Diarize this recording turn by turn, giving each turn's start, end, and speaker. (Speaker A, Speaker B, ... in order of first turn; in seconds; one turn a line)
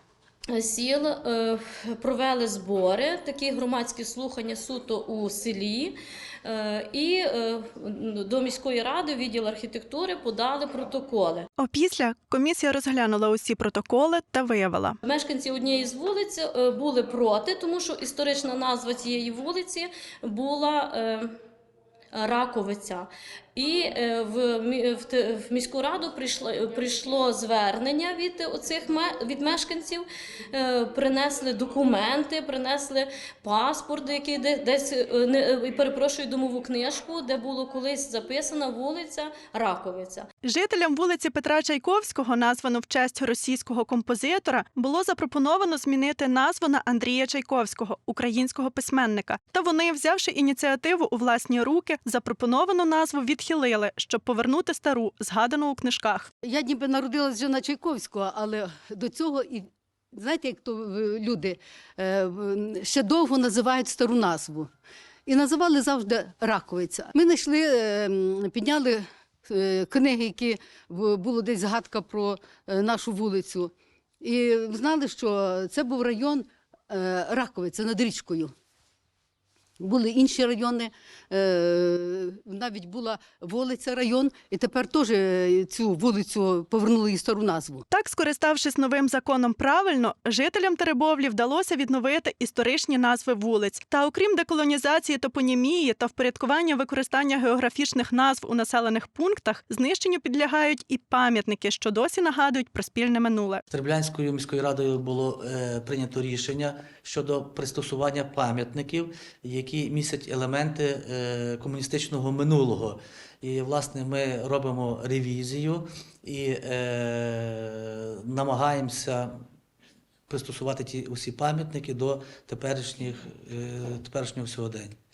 Speaker A: 0.5-5.9
Speaker A: 6.4-11.5
Speaker B: 11.6-15.0
Speaker A: 15.0-21.3
Speaker A: 22.1-40.3
Speaker B: 40.4-56.3
Speaker C: 56.4-64.7
Speaker C: 65.2-78.5
Speaker C: 79.8-87.8
Speaker B: 87.9-103.6
Speaker D: 103.7-119.3
Speaker D: 120.3-125.0